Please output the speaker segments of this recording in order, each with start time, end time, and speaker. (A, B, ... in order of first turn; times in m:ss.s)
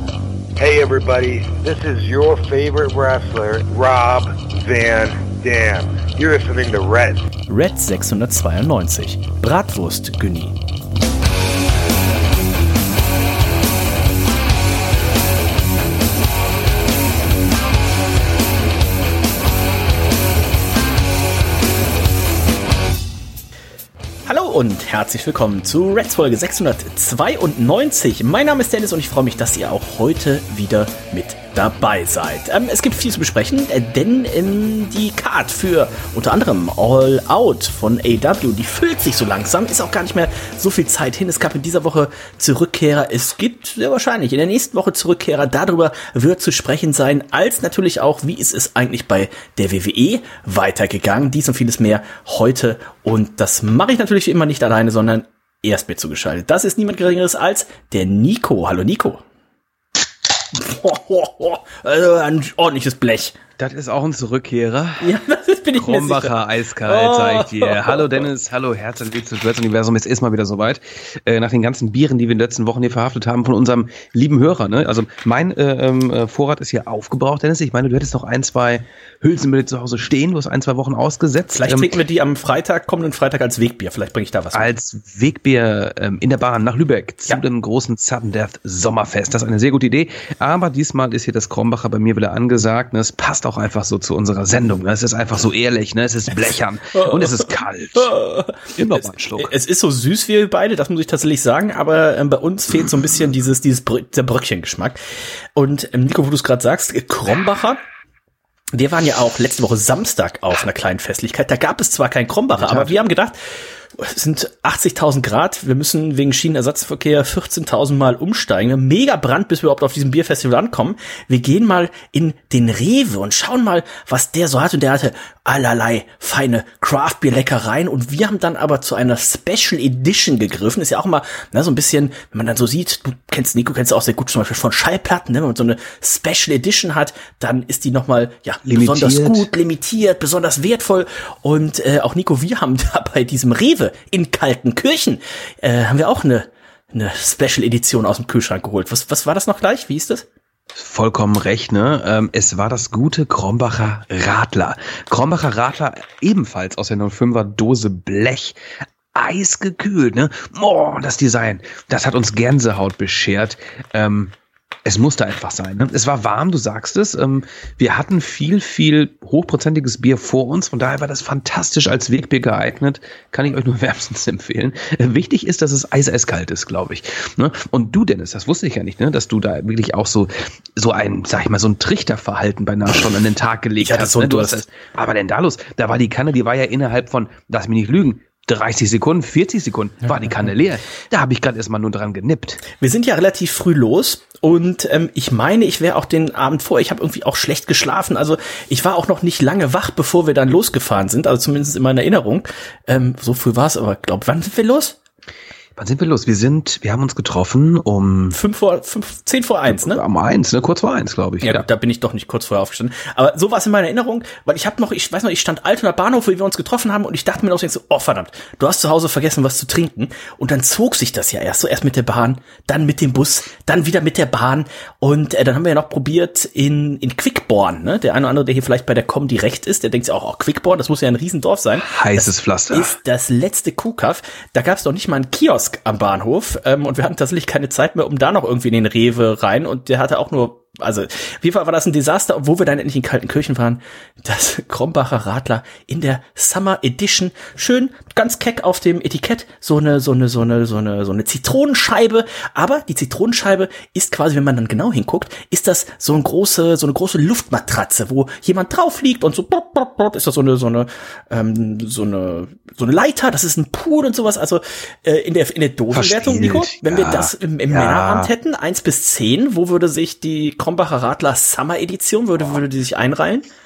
0:00.6-0:07.3 A
0:07.5-0:10.6 B
0:24.3-0:59.2 B
1:00.6-1:03.4 B
1:03.6-1:05.1 C
1:05.0-1:08.1 B
1:05.8-1:22.0 C
1:21.5-1:24.7 B
1:24.5-1:38.1 C
1:36.9-1:45.0 B
1:38.8-1:39.5 C
1:45.6-1:47.8 B
1:48.7-1:53.4 B
1:52.5-1:53.0 C
1:53.9-2:30.3 B
2:18.7-2:19.5 C
2:30.7-2:38.6 C
2:39.1-3:12.6 C
3:03.8-3:04.6 B
3:12.7-3:25.0 B
3:25.8-3:28.4 C
3:28.3-3:30.0 B
3:29.7-3:31.7 C
3:31.4-4:33.5 B
3:51.8-3:53.0 C
4:25.9-4:28.3 C